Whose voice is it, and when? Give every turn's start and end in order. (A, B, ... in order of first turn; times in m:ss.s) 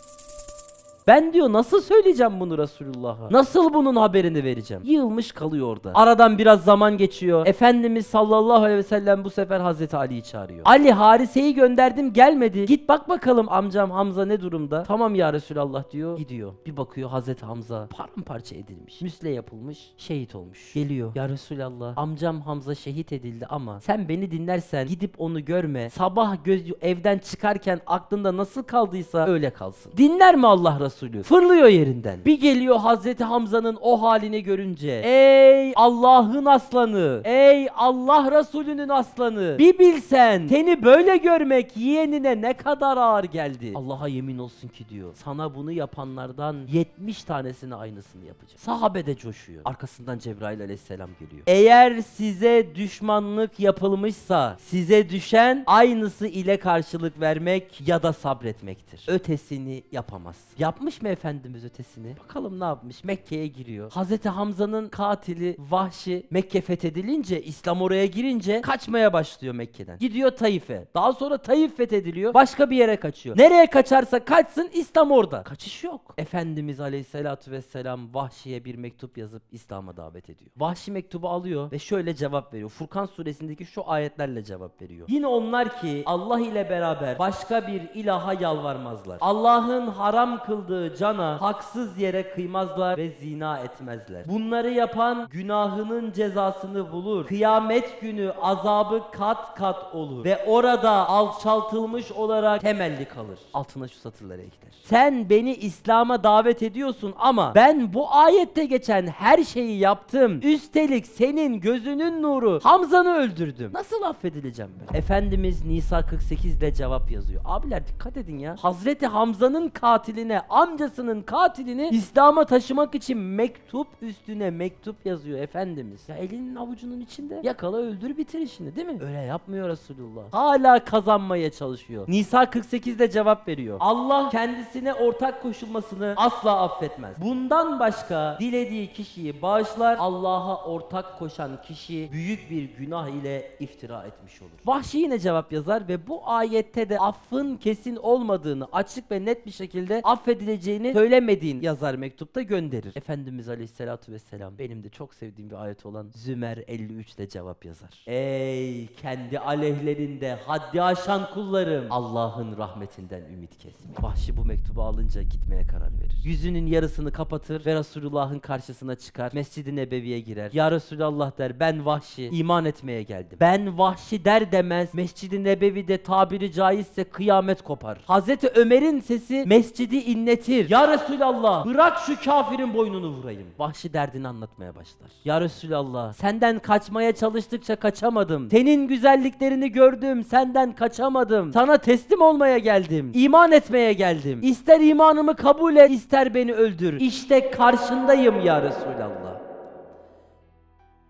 0:01.0-3:19.4 A